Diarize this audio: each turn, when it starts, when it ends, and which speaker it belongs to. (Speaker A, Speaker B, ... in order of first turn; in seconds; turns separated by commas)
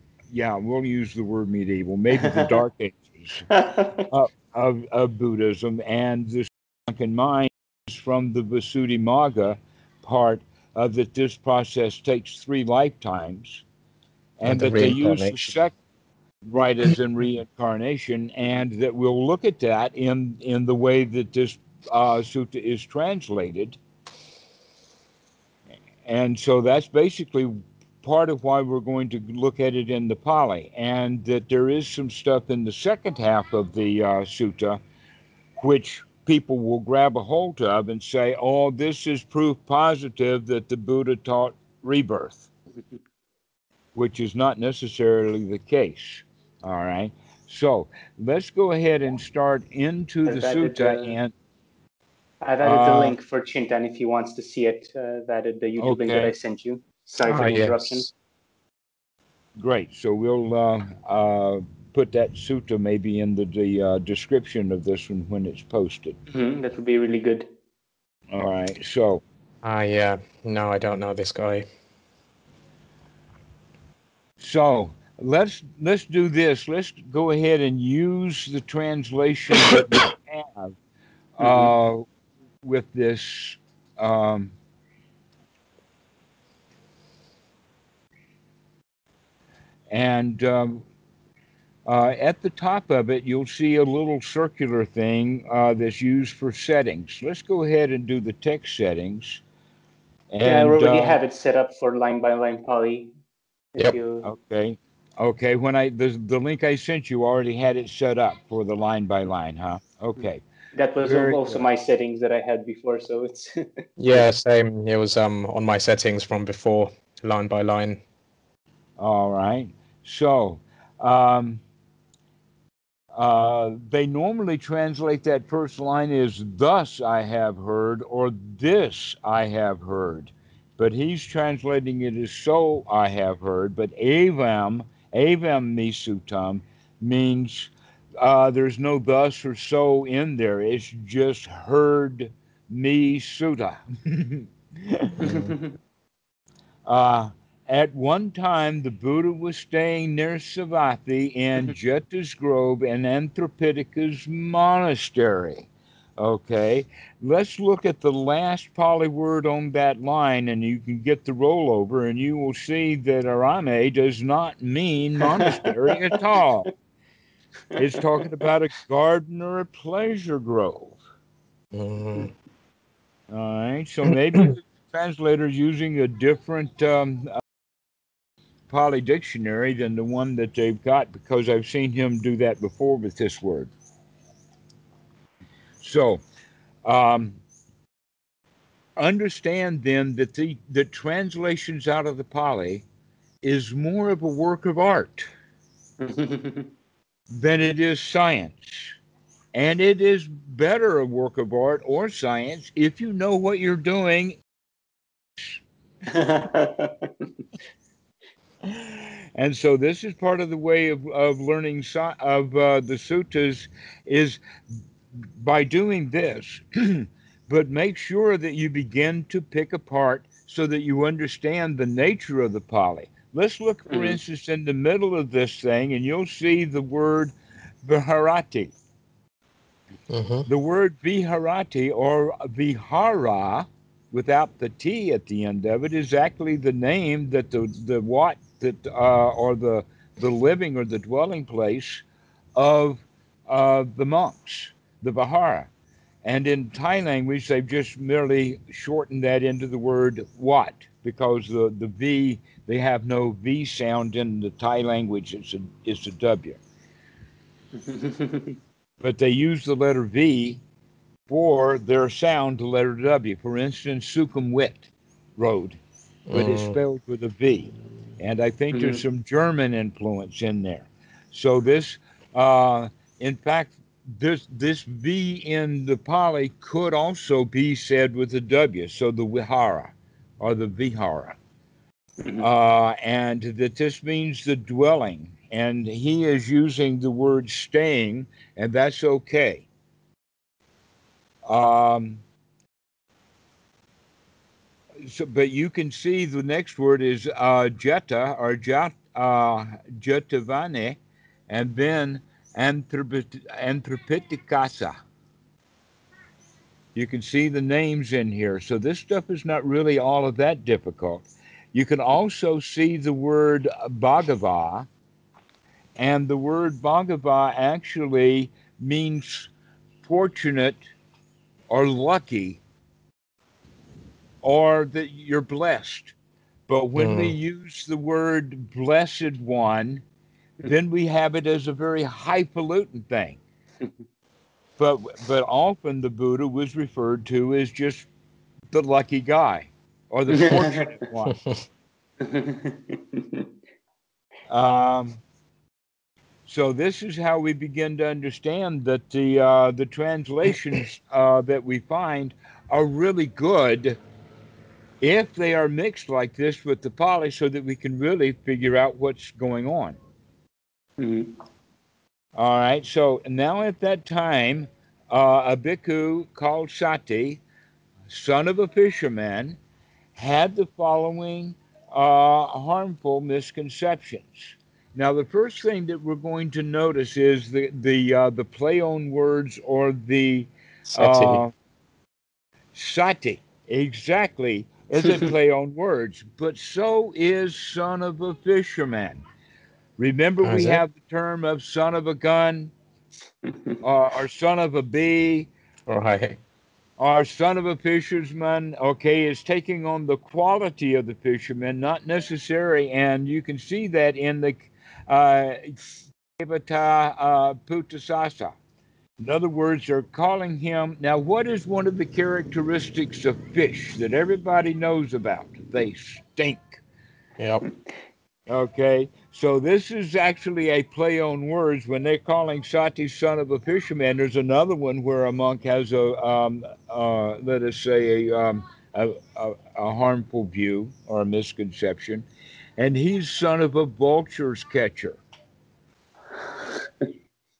Speaker A: 0.3-3.5, Speaker B: 2.2-2.6, Speaker B: 3.5-4.0, Speaker A: 4.1-13.6, Speaker A: 14.4-15.7, Speaker C: 14.4-15.5, Speaker A: 16.4-23.8, Speaker A: 26.1-34.8, Speaker A: 35.6-42.5, Speaker A: 43.9-51.3, Speaker B: 50.2-51.1, Speaker B: 52.4-58.1, Speaker A: 52.6-53.1, Speaker A: 55.8-56.3, Speaker C: 57.2-58.1, Speaker A: 59.6-66.2, Speaker B: 66.3-67.5, Speaker A: 68.3-69.2, Speaker C: 69.6-71.7, Speaker A: 74.4-80.7, Speaker A: 81.4-82.0, Speaker B: 81.4-81.7, Speaker A: 82.6-84.5, Speaker A: 89.9-90.8, Speaker A: 91.8-99.4, Speaker A: 100.3-101.2, Speaker B: 100.4-103.1, Speaker B: 103.7-104.2, Speaker A: 104.2-110.4, Speaker B: 110.7-113.9, Speaker A: 111.0-111.6, Speaker C: 114.0-118.0, Speaker A: 119.0-121.6, Speaker A: 123.1-145.2, Speaker C: 145.2-145.5, Speaker B: 145.2-145.7, Speaker A: 146.8-166.7, Speaker B: 165.6-166.2, Speaker A: 167.7-171.0, Speaker C: 171.7-172.3, Speaker A: 173.3-177.4, Speaker A: 178.7-183.7, Speaker A: 185.8-186.2, Speaker A: 186.8-187.4, Speaker A: 189.0-192.8, Speaker A: 193.4-195.2, Speaker B: 196.0-196.7, Speaker A: 197.3-198.9, Speaker A: 199.5-204.4, Speaker B: 206.1-207.3, Speaker A: 208.7-214.4, Speaker A: 215.1-227.3, Speaker B: 223.9-224.2, Speaker A: 227.8-228.7, Speaker C: 230.1-230.4, Speaker A: 230.4-242.0, Speaker A: 242.6-245.7, Speaker A: 246.2-256.6, Speaker B: 257.8-258.6, Speaker A: 259.0-260.6, Speaker A: 261.3-265.8, Speaker C: 266.3-266.8, Speaker A: 266.3-281.4, Speaker B: 268.7-269.0, Speaker A: 282.4-289.7, Speaker A: 291.4-292.2, Speaker A: 295.0-305.0, Speaker A: 306.9-314.9, Speaker A: 316.0-319.5, Speaker A: 320.0-320.8, Speaker A: 321.7-322.6, Speaker A: 324.4-326.1, Speaker A: 326.7-330.0, Speaker C: 326.9-327.3, Speaker A: 330.6-333.4, Speaker A: 334.8-338.1, Speaker A: 338.7-341.4, Speaker B: 340.3-341.0, Speaker B: 342.2-343.4, Speaker A: 344.5-345.2, Speaker A: 346.4-354.0, Speaker A: 355.0-360.0, Speaker B: 361.0-361.3, Speaker A: 362.4-367.4, Speaker A: 368.1-369.6, Speaker A: 370.1-381.5, Speaker C: 380.9-381.4, Speaker A: 382.7-389.2, Speaker A: 390.0-392.7, Speaker C: 390.4-390.8, Speaker B: 393.5-393.7, Speaker A: 393.8-395.5, Speaker C: 395.9-396.4, Speaker A: 397.0-408.5, Speaker A: 409.2-416.8, Speaker C: 417.4-417.7, Speaker A: 418.5-432.2, Speaker A: 432.8-435.2, Speaker B: 436.4-437.1